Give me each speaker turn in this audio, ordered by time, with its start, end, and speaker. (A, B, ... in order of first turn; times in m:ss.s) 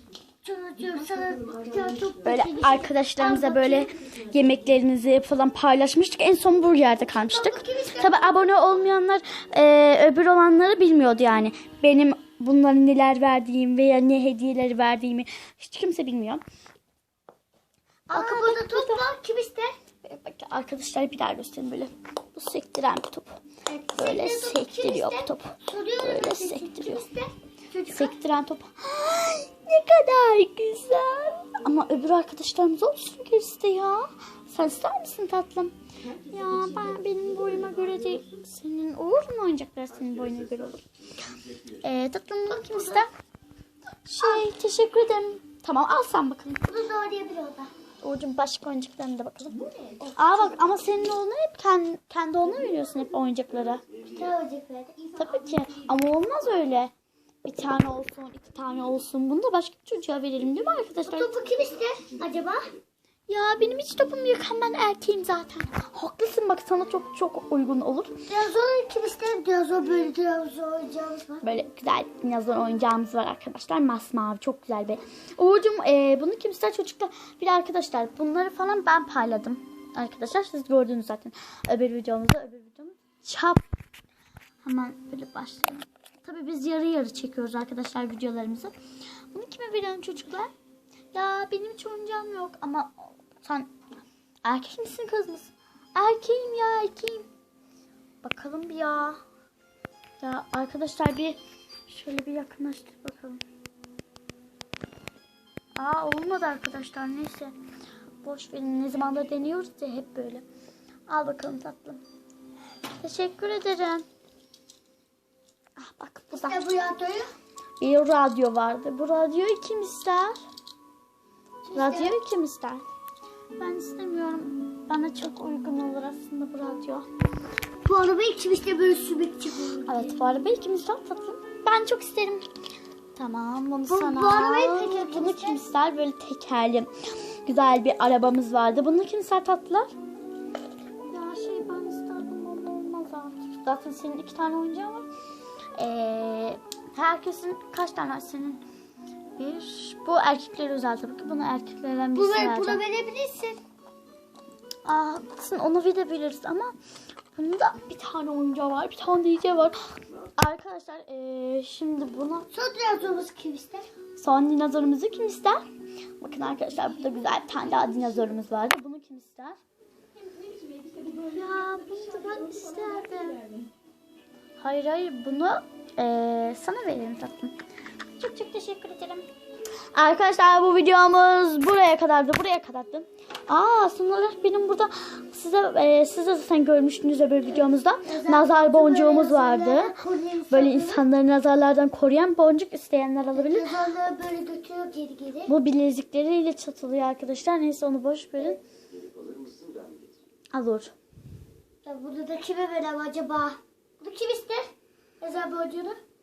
0:00.4-0:03.9 A
0:02.2-0:16.4 B
0:07.0-0:08.5 A
0:18.1-0:19.0 B
0:18.1-0:19.8 A
0:20.0-0:23.4 B
0:23.7-0:28.1 A
0:23.9-0:27.0 B
0:27.9-0:43.1 B
0:44.0-0:46.6 B
0:46.7-0:47.7 A
0:48.0-0:53.8 B
0:54.1-0:55.2 A
0:55.2-0:56.9 B
0:57.4-1:01.3 B
1:01.0-1:02.7 A
1:03.3-1:08.2 B
1:08.3-1:11.4 A
1:11.4-1:23.6 B
1:24.6-1:28.7 B
1:29.3-1:30.5 B
1:31.1-1:33.7 B
1:34.4-1:37.3 B
1:38.2-1:39.2 B
1:40.2-1:43.4 B
1:45.8-1:47.6 B
1:48.2-1:50.4 B
1:51.1-1:52.0 B
1:52.9-1:54.0 B
1:55.8-1:56.6 B
1:56.3-1:57.3 A
1:57.8-2:00.4 B
2:01.6-2:02.2 A
2:01.7-2:02.8 B
2:03.6-2:07.1 B
2:07.8-2:10.1 A
2:09.8-2:12.4 B
2:13.1-2:16.9 B
2:13.9-2:15.6 A
2:17.4-2:19.9 B
2:21.0-2:25.1 B
2:25.7-2:28.6 B
2:29.4-2:32.8 B
2:32.1-2:33.6 A
2:34.8-2:36.7 B
2:37.3-2:42.5 B
2:42.5-2:43.9 A
2:44.2-2:45.6 B
2:46.2-2:49.6 B
2:51.1-2:53.5 B
2:54.6-2:57.5 B
2:58.2-2:59.3 B
2:59.9-3:10.0 B
3:08.0-3:11.0 A
3:10.5-3:13.7 B
3:13.3-3:15.5 A
3:15.5-3:18.6 B
3:20.5-3:20.9 B
3:21.8-3:26.0 A